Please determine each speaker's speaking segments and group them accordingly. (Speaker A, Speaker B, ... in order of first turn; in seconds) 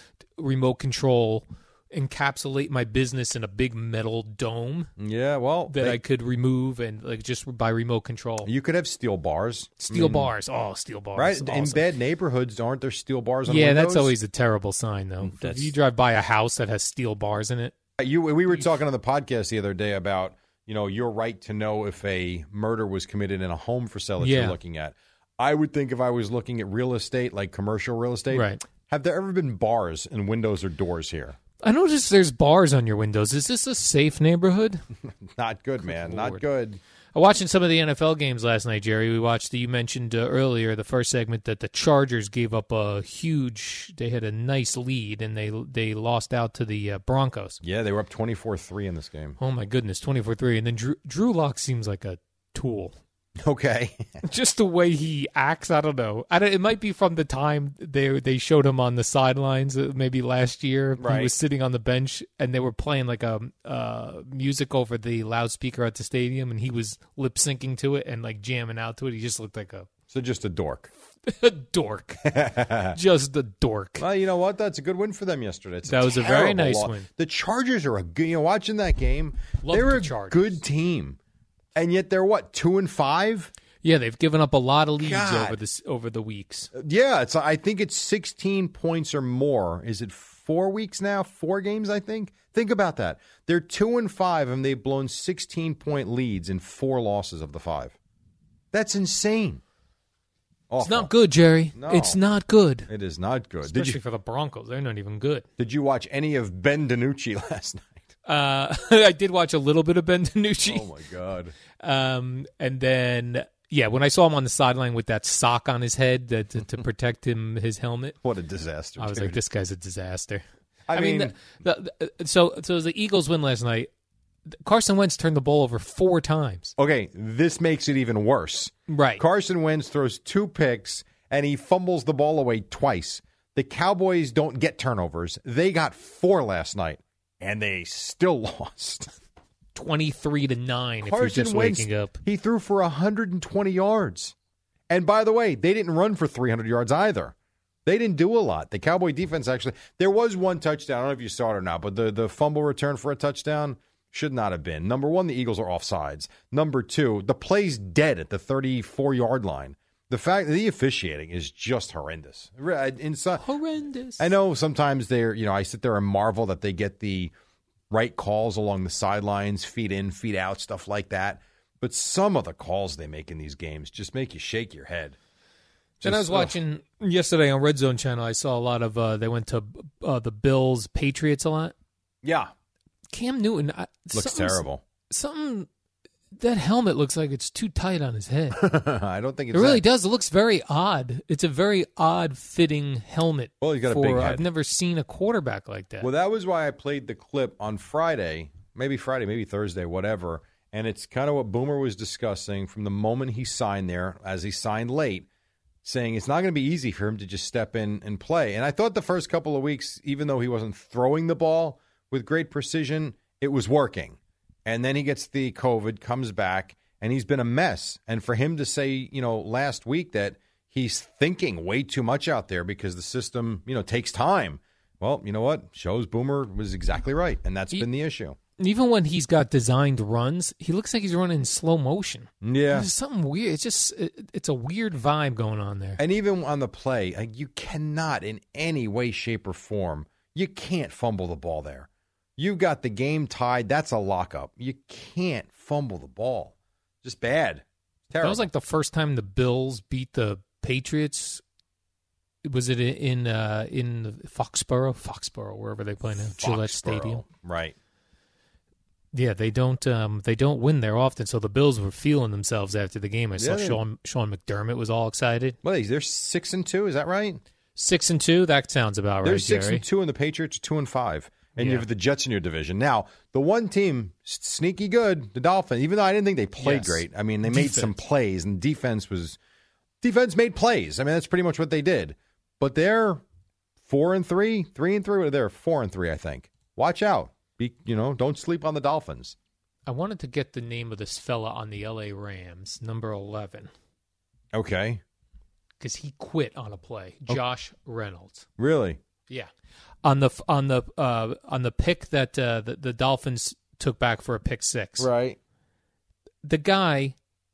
Speaker A: 0.4-4.9, 5.7-8.5, 9.8-11.8, 13.5-17.7, 24.2-24.6, 28.3-28.6, 31.6-34.8, 35.8-36.4, 37.1-47.6, 49.4-52.9, 54.2-69.9, 71.3-72.2, 72.9-74.0, 75.9-77.1, 79.6-80.6, 83.8-86.7, 100.8-102.9, 103.6-105.4, 108.2-110.8, 111.8-118.2, 119.0-123.9, 124.5-126.7, 128.9-129.2, 139.7-142.2, 163.4-164.3, 176.0-181.7, 183.1-185.7, 186.3-188.6, 189.5-196.1, 228.6-236.0, 248.2-251.4, 252.4-257.2, 259.1-265.6, 267.8-269.8, 271.6-271.9, 276.6-277.9, 289.9-293.7, 295.8-298.5, 300.0-305.1, 306.4-307.1
Speaker B: 5.0-6.0, 8.4-10.3, 11.2-14.1, 15.2-15.7, 18.0-31.4, 35.3-36.8, 47.6-49.4, 53.4-54.2, 61.0-61.3, 70.1-70.9, 72.3-73.0, 74.0-81.2, 81.7-83.5, 85.0-85.6, 86.7-98.0, 98.7-99.6, 100.7-101.1, 101.7-102.2, 102.9-104.0, 105.6-108.1, 110.6-111.5, 118.2-119.4, 120.9-121.3, 126.8-139.1, 141.0-144.3, 144.9-147.3, 147.8-163.4, 164.2-167.3, 167.9-175.2, 176.0-176.5, 182.2-182.5, 184.1-184.8, 188.5-189.8, 193.6-194.4, 196.0-205.3, 205.8-228.4, 232.4-232.9, 236.0-248.5, 256.2-257.7, 263.4-263.8, 265.6-267.4, 269.2-279.4, 280.0-283.2, 283.9-289.4, 294.5-295.0, 298.6-299.0, 305.0-305.4